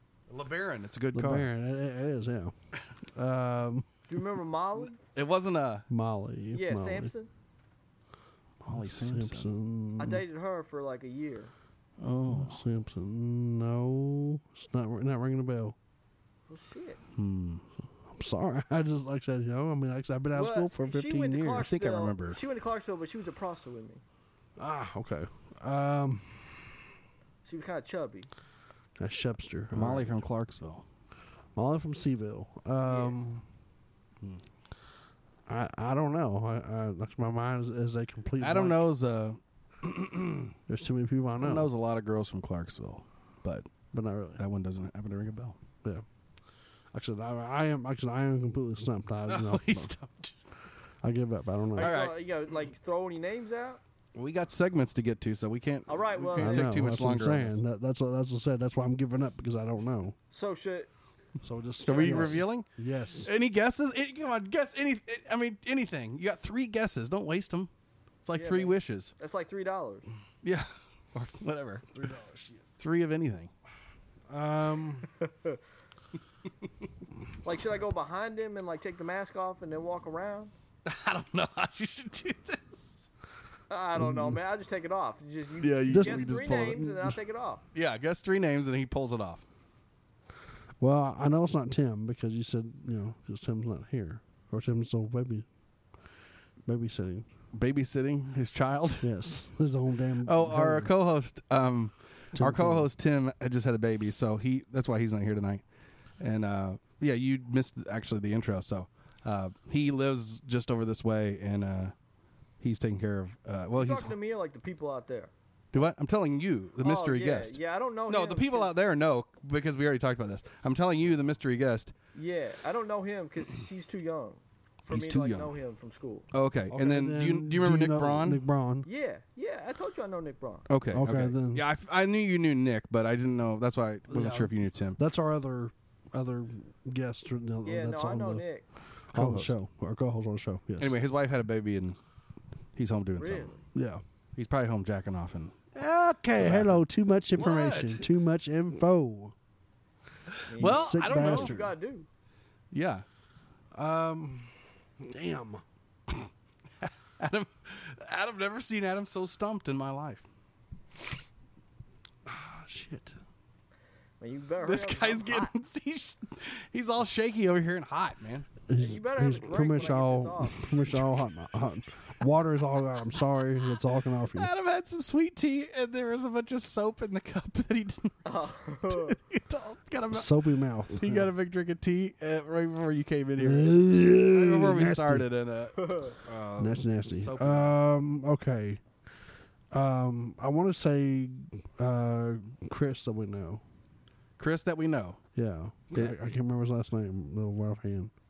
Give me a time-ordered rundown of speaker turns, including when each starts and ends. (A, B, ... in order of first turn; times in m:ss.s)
0:00.3-0:01.5 A
0:01.1-0:02.5 B
0:03.1-0:03.9 B
0:04.1-0:05.0 C
0:05.0-0:05.8 A
0:05.9-0:07.1 B
0:06.5-0:07.3 C
0:08.6-0:10.2 B
0:08.7-0:09.5 A
0:10.0-0:11.5 C
0:12.0-0:12.6 A
0:12.3-0:15.8 B
0:16.5-0:17.0 C
0:17.2-0:17.6 A
0:18.1-0:21.7 B
0:20.3-0:24.0 C
0:21.6-0:22.4 A
0:24.6-0:26.5 B
0:27.4-0:28.3 C
0:29.0-0:30.2 B
0:29.7-0:30.8 A
0:31.6-0:33.4 B
0:32.9-0:33.1 C
0:35.5-0:38.9 B
0:38.4-0:40.5 A
0:40.7-0:41.7 B
0:41.4-0:43.7 A
0:43.9-0:44.4 B
0:44.4-0:45.6 A
0:46.9-0:49.9 B
0:49.3-0:50.4 A
0:51.0-0:51.9 B
0:51.8-0:53.8 C
0:51.8-0:52.2 A
0:54.1-0:57.6 A
0:55.9-0:56.8 C
0:56.4-1:00.2 B
1:00.3-1:00.9 C
1:01.4-1:03.3 B
1:01.8-1:07.7 A
1:01.9-1:02.3 C
1:08.2-1:09.1 A
1:08.3-1:10.1 C
1:10.4-1:11.9 A
1:11.9-1:12.6 B
1:12.8-1:13.5 A
1:14.3-1:15.1 B
1:17.4-1:20.5 C
1:20.8-1:23.1 A
1:23.7-1:27.6 C
1:24.0-1:24.4 B
1:25.6-1:26.9 A
1:25.9-1:27.1 B
1:27.7-1:29.4 A
1:30.8-1:35.5 B
1:36.6-1:37.3 B
1:37.5-1:39.1 A
1:39.0-1:40.9 B
1:40.2-1:45.6 A
1:42.3-1:42.9 B
1:46.2-1:51.9 A
1:52.6-1:54.1 A
1:53.7-1:55.3 C
1:55.7-2:01.9 A
1:56.8-1:58.7 C
2:02.1-2:06.3 C
2:04.9-2:05.5 A
2:06.3-2:08.4 A
2:06.7-2:08.9 B
2:08.8-2:10.7 C
2:10.7-2:15.0 A
2:10.9-2:11.6 B
2:14.1-2:18.4 B
2:17.6-2:18.6 C
2:19.1-2:20.9 B
2:19.1-2:19.5 A
2:20.8-2:22.0 A
2:22.8-2:23.5 A
2:23.2-2:23.6 C
2:23.7-2:24.0 B
2:24.3-2:25.6 A
2:25.7-2:29.3 B
2:26.4-2:26.8 A
2:27.3-2:28.1 A
2:30.5-2:32.1 C
2:30.5-2:31.6 A
2:30.6-2:31.7 B
2:32.7-2:33.0 A
2:33.7-2:35.6 B
2:36.8-2:40.2 A
2:42.3-2:43.2 B
2:44.2-2:45.5 C
2:44.6-2:48.5 A
2:48.7-2:54.5 B
2:48.8-2:50.7 C
2:50.9-2:51.2 A
2:54.3-3:07.8 A
2:58.2-2:59.2 C
3:00.1-3:01.3 B
3:03.4-3:05.3 B
3:05.8-3:06.1 C
3:06.6-3:08.8 B
3:09.7-3:13.6 B
3:14.4-3:15.2 A
3:15.3-3:18.1 B